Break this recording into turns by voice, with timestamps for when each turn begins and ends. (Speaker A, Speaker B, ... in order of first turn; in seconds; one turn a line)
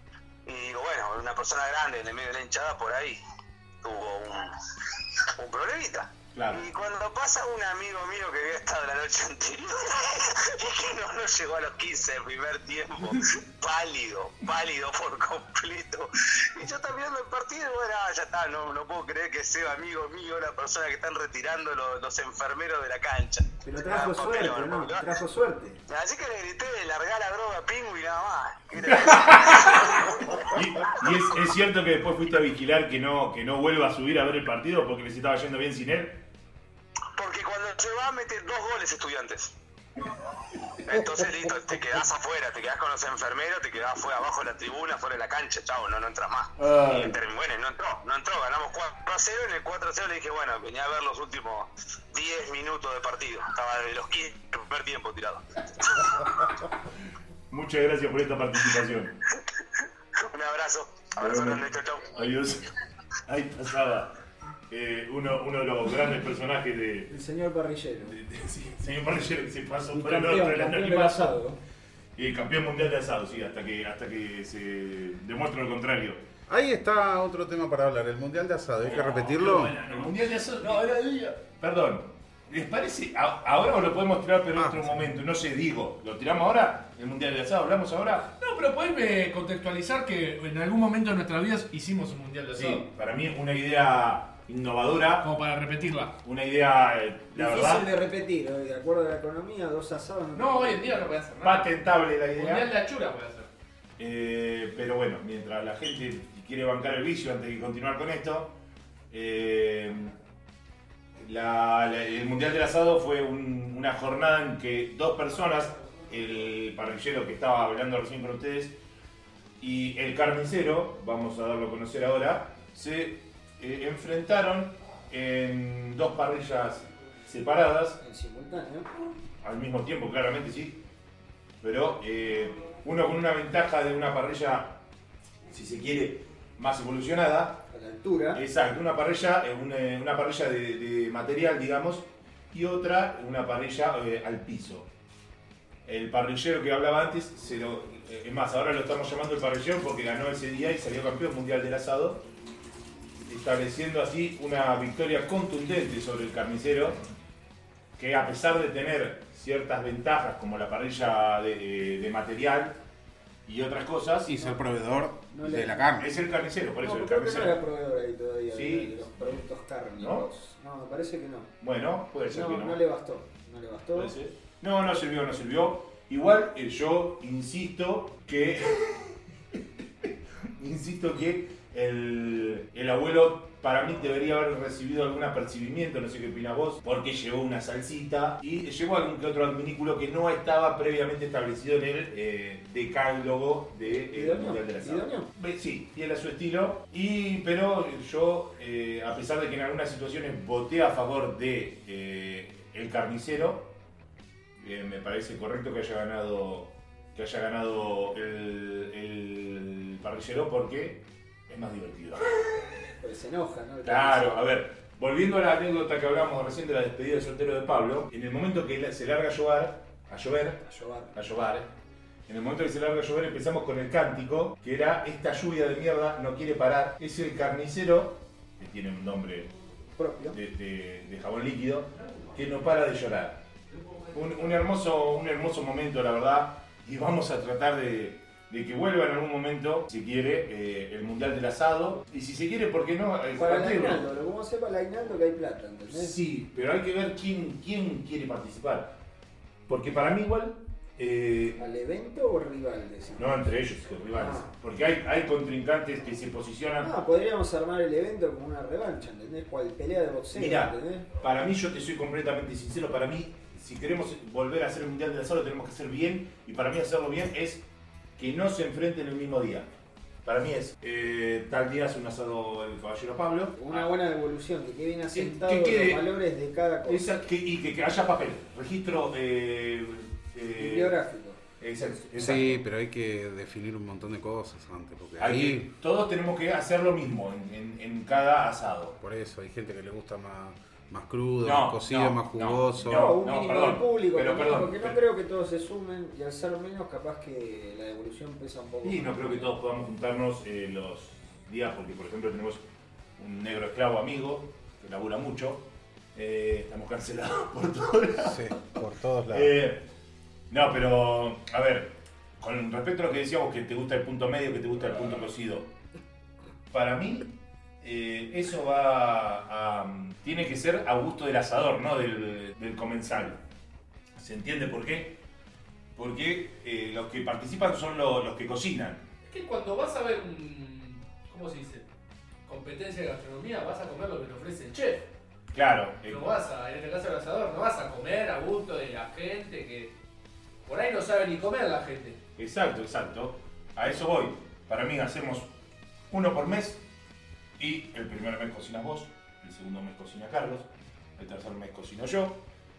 Speaker A: 0.5-3.2
Speaker A: 3.8-25.0
Speaker B: 6.3-6.7
Speaker C: 23.6-25.8
Speaker A: 25.9-31.1
Speaker B: 28.9-36.2
Speaker A: 37.2-39.5
Speaker A: 40.7-56.4
Speaker B: 46.6-47.2
Speaker B: 57.5-59.2
Speaker A: 59.4-62.2
Speaker B: 61.2-62.7
Speaker B: 63.3-64.1
Speaker B: 64.7-67.2
Speaker C: 67.1-68.2
Speaker B: 68.1-71.4
Speaker C: 69.9-71.6
Speaker B: 72.2-76.2
Speaker D: 76.5-79.8
Speaker B: 78.8-88.3
Speaker E: 78.9-81.4
Speaker D: 84.6-85.1
Speaker E: 88.4-92.9
Speaker B: 92.5-95.3
Speaker E: 95.2-96.2
Speaker B: 96.2-97.9
Speaker C: 97.3-101.0
Speaker E: 100.3-101.8
Speaker B: 101.4-102.7
Speaker E: 102.3-103.5
Speaker B: 104.0-108.5
Speaker B: 109.1-110.1
Speaker B: 111.2-118.8
Speaker B: 119.6-128.0
Speaker C: 128.0-128.9
Speaker B: 129.4-130.8
Speaker B: 131.6-134.8
Speaker B: 135.5-137.7
Speaker C: 137.7-138.4
Speaker B: 138.3-144.9
Speaker B: 145.8-152.2
Speaker B: 153.3-157.0
Speaker B: 158.0-162.8
Speaker B: 163.5-164.4
Speaker D: 164.3-166.1
Speaker C: 165.3-165.9
Speaker B: 166.0-167.6
Speaker C: 166.8-171.5
Speaker B: 168.5-169.4
Speaker B: 170.0-170.3
Speaker B: 171.6-172.8
Speaker C: 172.3-174.2
Speaker B: 173.9-203.7
Speaker C: 193.8-195.3
Speaker B: 204.6-212.7
Speaker C: 212.9-214.4
Speaker B: 213.8-221.7
Speaker C: 220.6-221.2
Speaker B: 222.3-229.5
Speaker C: 230.0-230.4
Speaker B: 230.3-233.4
Speaker E: 232.0-232.4
Speaker E: 233.7-234.6
Speaker B: 234.1-244.1
Speaker C: 243.3-246.2
Speaker B: 245.9-248.9
Speaker B: 249.7-251.6
Speaker C: 251.6-253.3
Speaker B: 253.2-256.9
Speaker C: 254.1-254.5
Speaker C: 256.8-261.1
Speaker B: 260.3-267.6
Speaker B: 268.2-269.7
Speaker B: 270.2-273.9
Speaker C: 273.6-277.1
Speaker B: 275.1-276.1
Speaker B: 276.9-281.0
Speaker C: 280.6-281.4
Speaker B: 281.6-282.6
Speaker D: 282.2-285.7
Speaker B: 285.2-289.0
Speaker D: 289.0-293.1
Speaker B: 291.4-295.0
Speaker C: 292.8-299.6
Speaker B: 298.8-302.6
Speaker B: 303.2-309.9
Speaker D: 308.2-309.5
Speaker B: 310.5-315.7
Speaker B: 316.7-323.4
Speaker B: 324.2-325.2
Speaker B: 326.0-329.0
Speaker E: 329.2-331.9
Speaker E: 332.4-335.1
Speaker B: 335.5-336.4
Speaker E: 336.0-339.9
Speaker E: 340.7-342.2
Speaker B: 342.4-345.5
Speaker B: 346.1-346.8
Speaker B: 347.6-352.4